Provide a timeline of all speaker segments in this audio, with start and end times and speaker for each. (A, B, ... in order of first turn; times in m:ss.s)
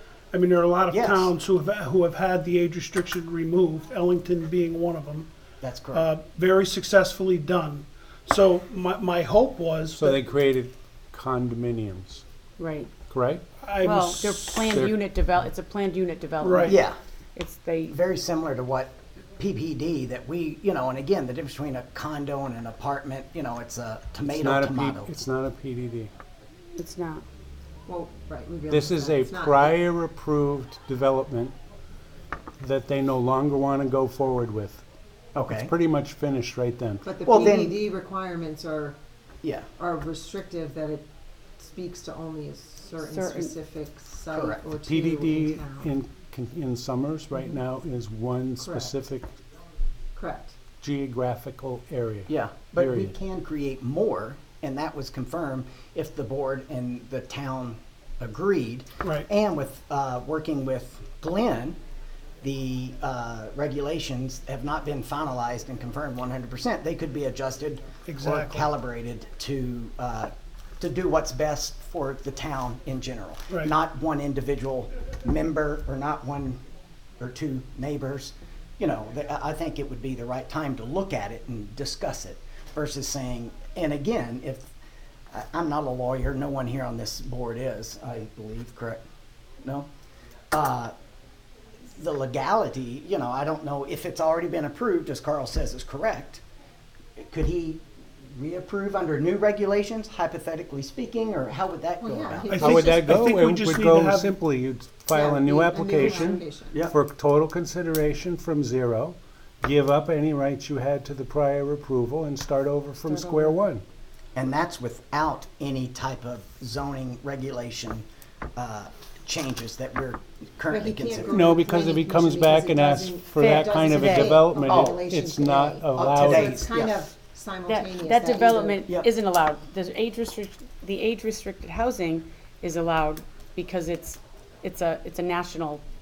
0:00.3-0:05.3 A
0:00.9-0:01.3 B
0:05.6-0:06.1 B
0:05.9-0:10.2 A
0:09.9-0:12.2 C
0:12.6-0:13.0 D
0:13.0-0:13.4 C
0:13.6-0:14.8 A
0:13.8-0:18.0 D
0:14.7-0:15.0 C
0:16.4-0:16.8 A
0:16.7-0:17.0 B
0:17.9-0:25.1 B
0:24.3-0:26.1 C
0:26.8-0:27.2 D
0:27.9-0:29.7 E
0:28.7-0:31.6 C
0:32.6-0:34.8 C
0:35.4-0:35.7 B
0:35.5-0:37.1 C
0:37.0-0:39.0 E
0:37.2-0:37.8 B
0:39.4-0:39.7 B
0:39.8-0:41.0 E
0:41.6-0:45.9 E
0:43.0-0:43.5 D
0:44.3-0:44.6 B
0:44.8-0:49.3 C
0:48.6-0:48.9 E
0:50.2-0:50.6 E
0:50.8-0:53.1 C
0:52.3-1:01.8 B
0:59.0-0:59.3 A
1:02.4-1:16.6 B
1:08.1-1:08.7 A
1:17.2-1:24.7 B
1:25.3-1:29.0 B
1:29.6-1:29.9 B
1:30.5-1:30.9 B
1:32.0-1:36.4 B
1:37.2-1:42.9 B
1:42.0-1:43.0 E
1:42.5-1:44.3 A
1:42.6-1:53.8 C
1:45.1-1:46.8 E
1:54.4-1:58.0 B
1:58.6-2:01.6 B
2:00.7-2:08.9 E
2:01.3-2:06.7 C
2:03.4-2:04.5 D
2:04.6-2:05.0 B
2:06.0-2:07.0 B
2:07.7-2:15.8 D